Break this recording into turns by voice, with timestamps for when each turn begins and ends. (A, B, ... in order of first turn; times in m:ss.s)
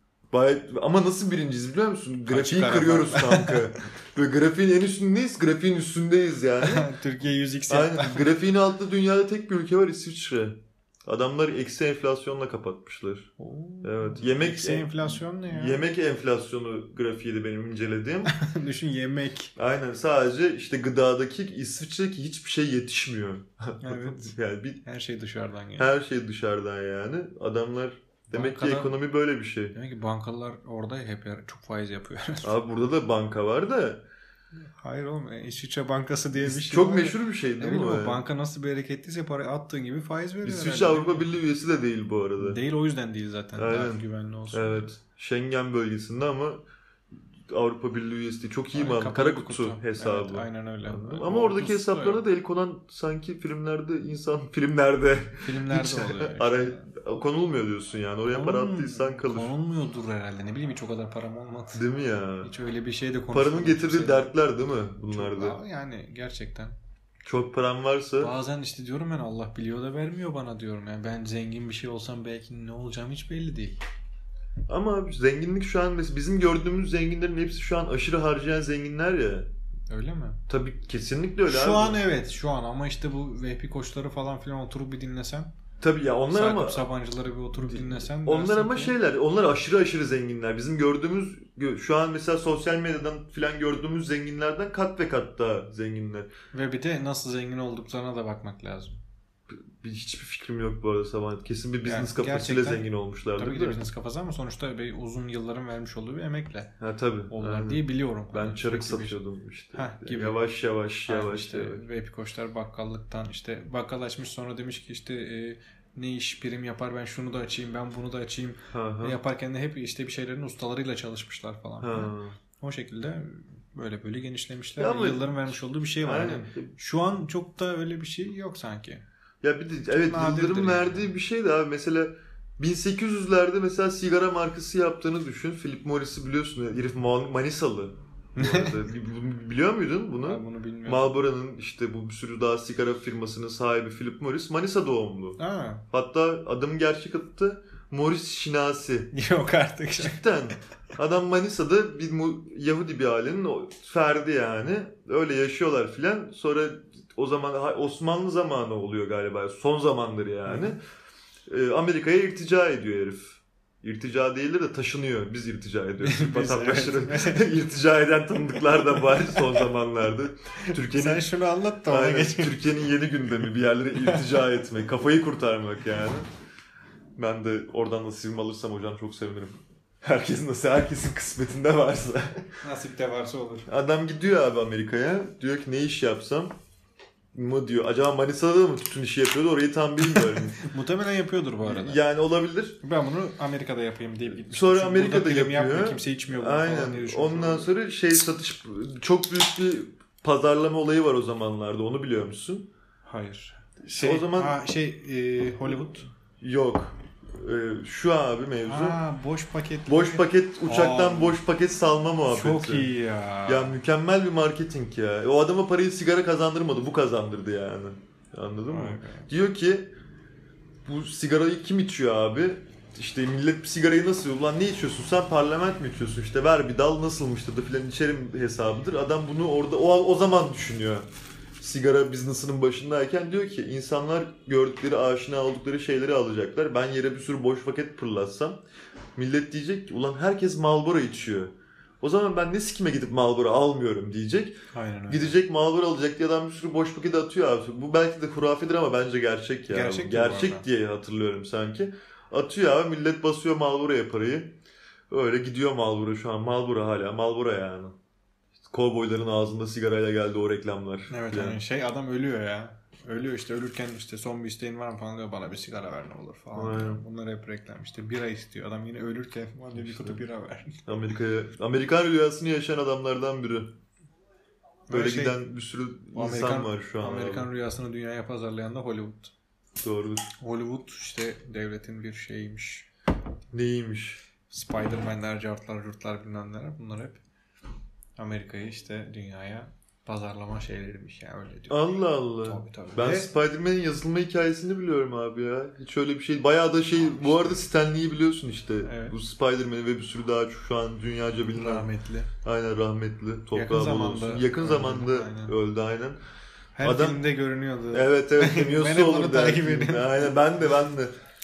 0:00.3-0:06.9 A
0:02.3-0:03.6 B
0:06.6-0:08.3 B
0:07.7-0:13.3 A
0:13.4-0:15.8 B
0:13.8-0:18.3 A
0:18.3-0:19.5 B
0:19.6-0:24.8 A
0:23.8-0:25.9 B
0:25.8-0:29.7 A
0:28.3-0:29.0 B
0:29.7-0:32.5 B
0:32.4-0:34.0 A
0:34.7-0:41.3 B
0:36.4-0:38.2 A
0:40.4-0:42.6 A
0:42.4-0:44.9 B
0:43.6-0:46.6 A
0:47.5-0:59.5 A
0:48.7-0:52.2 B
0:55.4-0:56.9 B
0:58.3-1:01.8 B
1:01.7-1:02.5 A
1:02.4-1:04.3 B
1:03.3-1:05.6 A
1:05.1-1:06.8 B
1:07.2-1:08.3 A
1:08.2-1:13.8 B
1:14.7-1:19.5 A
1:19.9-1:20.4 B
1:20.5-1:22.0 A
1:21.5-1:25.5 B
1:25.8-1:26.8 A
1:26.3-1:29.0 B
1:27.5-1:36.3 A
1:36.5-1:39.0 B
1:39.5-1:43.8 A
1:41.8-1:46.7 B
1:46.8-1:51.8 A
1:47.3-1:49.2 B
1:49.7-1:50.4 B
1:51.1-2:09.0 B
1:58.7-1:59.2 A
2:01.8-2:02.4 A
2:04.8-2:06.7 A
2:09.4-2:25.4 A
2:09.9-2:11.1 B
2:18.4-2:18.8 B
2:20.2-2:21.1 B
2:25.4-2:25.8 B
2:25.9-2:29.1 A
2:29.1-2:30.5 B
2:30.0-2:40.8 A
2:40.5-2:40.8 B
2:41.5-2:51.3 A
2:46.0-2:47.5 B
2:49.1-2:49.6 B
2:50.6-2:52.9 B
2:51.9-2:56.3 A
2:57.2-3:02.4 A
3:02.6-3:03.7 B
3:03.7-3:06.5 A
3:07.3-3:10.7 A
3:10.1-3:12.0 B
3:11.6-3:12.8 A
3:12.8-3:17.7 B
3:14.4-3:22.7 A
3:23.0-3:26.1 B
3:23.9-3:24.6 A
3:26.4-3:29.0 A
3:28.7-3:31.4 B
3:29.9-3:32.9 A
3:32.3-3:33.8 B
3:33.4-3:39.9 A
3:38.7-3:39.3 B
3:40.8-3:51.1 A
3:51.6-3:58.6 A
3:59.2-4:04.6 A
4:04.7-4:05.4 B
4:05.1-4:14.6 A
4:09.7-4:10.6 B
4:15.1-4:18.0 A
4:18.6-4:21.6 A
4:21.1-4:30.8 B
4:26.5-4:27.0 A
4:29.8-4:30.2 A
4:30.8-4:33.7 A
4:34.9-4:35.4 B
4:34.9-4:37.5 A
4:36.1-4:39.3 B
4:39.8-4:40.3 A
4:40.4-4:42.9 B
4:43.5-4:44.2 A
4:44.5-4:47.2 B
4:48.2-4:53.3 B
4:51.7-5:01.9 A
4:57.0-4:57.6 B
4:58.8-4:59.2 B
5:01.5-5:02.3 B
5:02.4-5:06.2 A
5:03.5-5:05.6 B
5:06.8-5:10.3 B
5:06.8-5:07.2 A
5:07.9-5:11.1 A